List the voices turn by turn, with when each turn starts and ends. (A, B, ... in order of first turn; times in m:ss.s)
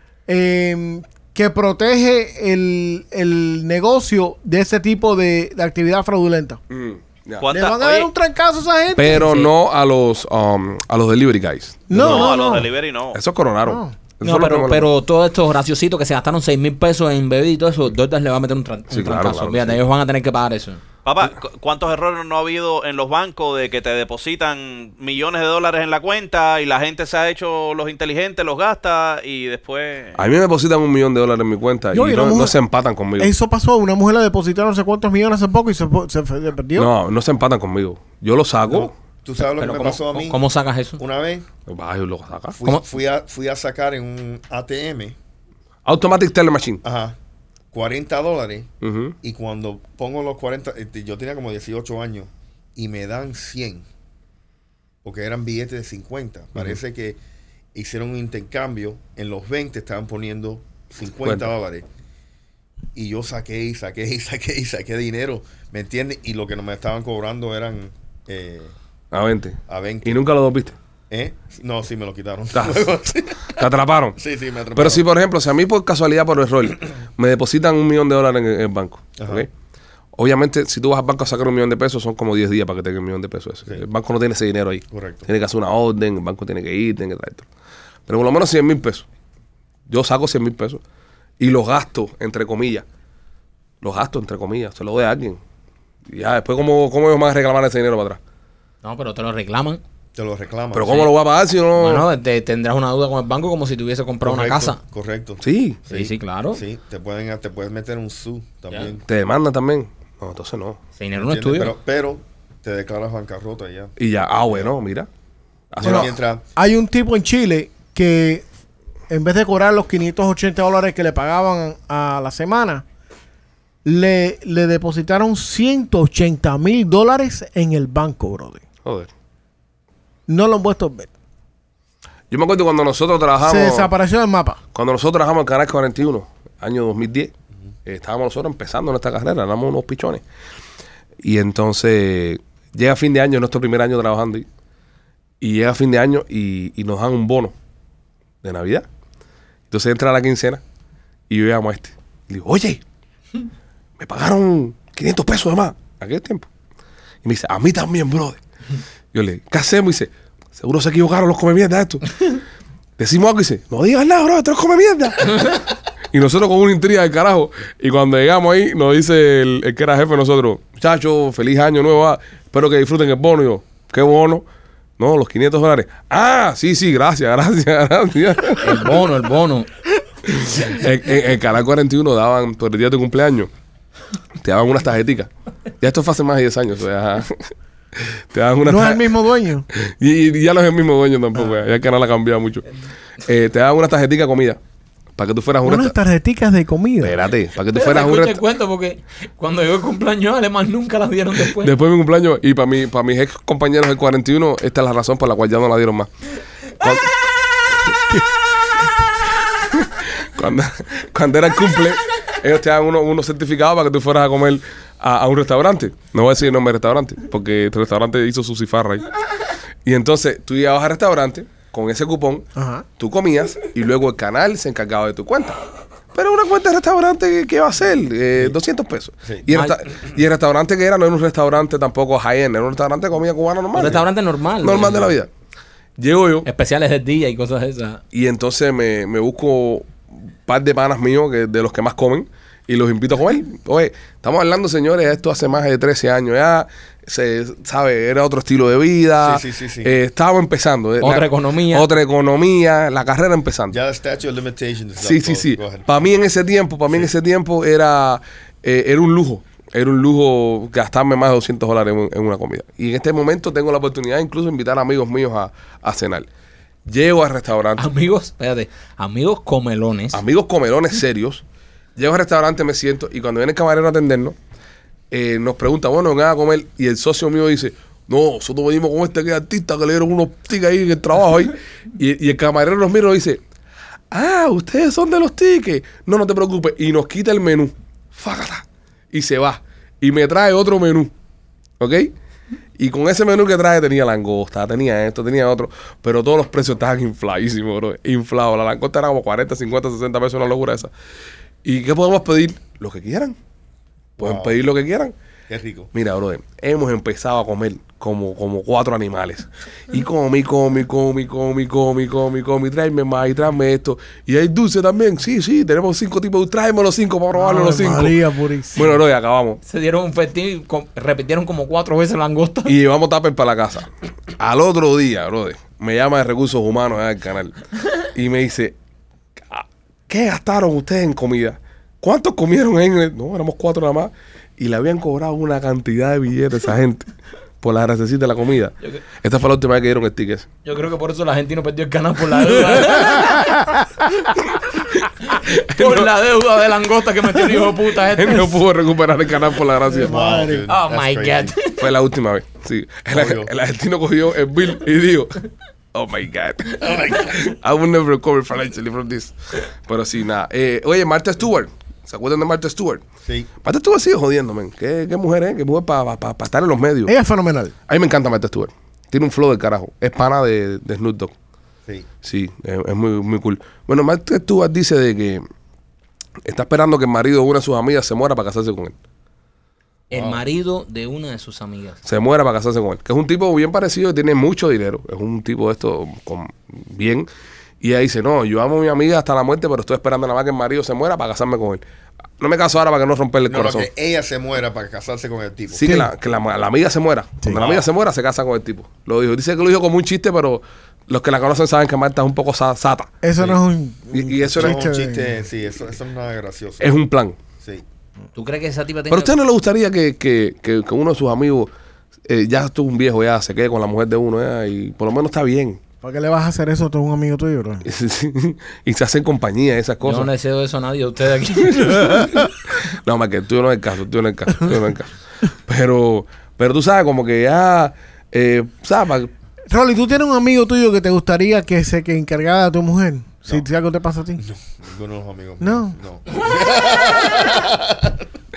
0:00.3-0:06.6 A
0:06.7-0:07.5 B
0:07.4-0:08.1 C
0:07.5-0:09.4 A
0:08.9-0:12.6 B
0:09.2-0:09.5 D
0:11.9-0:12.7 A
0:12.0-0:13.2 C
0:13.1-0:14.9 B
0:13.6-0:14.0 A
0:14.2-0:20.8 D
0:18.9-0:19.8 B
0:21.0-0:30.2 C
0:30.2-0:33.3 B
0:31.9-0:32.6 A
0:33.2-0:36.9 A
0:36.8-0:38.9 B
0:38.7-0:40.4 E
0:39.4-0:41.0 D
0:41.0-0:41.5 E
0:41.7-0:42.6 B
0:42.6-0:45.2 E
0:45.8-0:46.8 B
0:46.8-0:47.2 E
0:47.7-0:48.7 E
0:48.8-0:49.2 B
0:49.2-0:53.9 E
0:55.0-0:57.2 E
0:57.7-1:01.9 E
1:03.0-1:08.7 E
1:09.1-1:10.8 B
1:09.7-1:10.2 E
1:11.1-1:15.1 E
1:12.5-1:12.9 B
1:13.6-1:14.2 B
1:14.8-1:19.5 B
1:19.2-1:19.5 E
1:20.2-1:27.5 B
1:24.9-1:25.3 E
1:28.1-1:29.1 B
1:29.9-1:30.8 B
1:31.4-1:32.8 B
1:33.8-1:35.4 B
1:36.1-1:38.2 B
1:38.8-1:39.8 D
1:40.2-1:41.1 E
1:40.7-1:42.1 B
1:41.8-1:44.8 D
1:44.2-1:49.0 E
1:45.4-1:45.8 B
1:45.9-1:46.6 D
1:49.1-1:50.8 B
1:51.0-1:51.8 D
1:51.2-1:53.9 E
1:54.0-1:55.1 B
1:54.5-1:54.7 E
1:55.7-1:56.1 B
1:55.8-1:56.4 E
1:55.8-1:58.4 A
1:59.1-2:02.8 A
2:03.8-2:08.6 A
2:08.8-2:09.1 B
2:10.3-2:11.1 A
2:12.3-2:13.9 B
2:13.4-2:14.6 A
2:14.7-2:17.3 B
2:17.8-2:20.2 B
2:21.2-2:24.5 B
2:25.4-2:27.6 B
2:28.4-2:28.9 B
2:29.7-2:30.6 B
2:31.3-2:32.8 B
2:34.0-2:36.5 B
2:37.2-2:38.4 B
2:39.1-2:42.4 B
2:43.0-2:45.6 B
2:46.1-2:54.4 B
2:55.0-2:58.9 B
2:58.6-2:59.7 D
3:00.2-3:03.5 B
3:04.4-3:09.2 B
3:08.6-3:09.7 A
3:09.7-3:12.6 B
3:13.2-3:14.6 B
3:15.2-3:15.9 B
3:15.6-3:17.2 A
3:17.0-3:18.4 B
3:17.7-3:21.7 D
3:21.6-3:26.1 B
3:26.8-3:27.1 B
3:27.7-3:28.2 B
3:29.7-3:39.1 B
3:39.8-3:45.6 B
3:42.6-3:42.8 A
3:46.1-3:54.0 B
3:49.5-3:49.8 D
3:53.8-3:55.1 D
3:54.6-3:55.3 B
3:56.0-3:56.5 B
3:56.4-3:58.0 D
3:58.1-4:13.8 B
4:09.2-4:10.0 E
4:11.0-4:11.9 D
4:13.7-4:16.1 E
4:15.0-4:26.3 B
4:26.9-4:27.9 B
4:27.8-4:30.2 D
4:30.1-4:31.4 B
4:32.0-4:34.4 B
4:35.1-4:43.4 B
4:44.1-4:51.1 B
4:51.8-4:52.1 B
4:52.8-5:00.9 B
5:01.6-5:03.4 B
5:04.2-5:04.6 E
5:04.2-5:05.1 B
5:05.5-5:05.9 E
5:05.9-5:18.2 B
5:17.3-5:19.0 A
5:18.7-5:19.6 B
5:19.7-5:22.7 D
5:22.7-5:28.8 B
5:29.4-5:40.5 B
5:40.6-5:43.6 D
5:42.9-5:43.8 A
5:45.3-5:48.6 D
5:45.6-5:46.1 B
5:48.2-5:50.4 B
5:49.9-5:50.7 A
5:50.0-5:51.6 E
5:50.7-5:51.8 D
5:51.8-5:55.4 B
5:53.1-5:53.5 E
5:55.9-6:03.0 B
5:56.8-5:57.4 E
6:03.2-6:03.5 E
6:03.6-6:07.2 B
6:07.1-6:07.7 A
6:07.9-6:11.3 B
6:12.2-6:15.4 B
6:16.4-6:19.0 B
6:20.1-6:22.0 D
6:20.1-6:20.4 E
6:22.0-6:27.3 B
6:27.8-6:31.8 B
6:32.4-6:33.9 B
6:33.5-6:35.9 E
6:35.8-6:43.6 B
6:35.8-6:36.1 A
6:37.5-6:37.9 E
6:43.2-6:45.3 A
6:44.1-6:44.8 B
6:44.4-6:47.0 E
6:46.8-6:47.4 B
6:47.6-6:47.8 E
6:48.4-6:49.3 D
6:49.1-6:51.7 B
6:52.3-6:55.8 B
6:56.0-6:57.8 A
6:57.8-7:00.3 B
7:00.0-7:02.3 D
7:01.8-7:09.3 B
7:09.7-7:14.4 A
7:14.4-7:18.3 E
7:15.6-7:16.0 A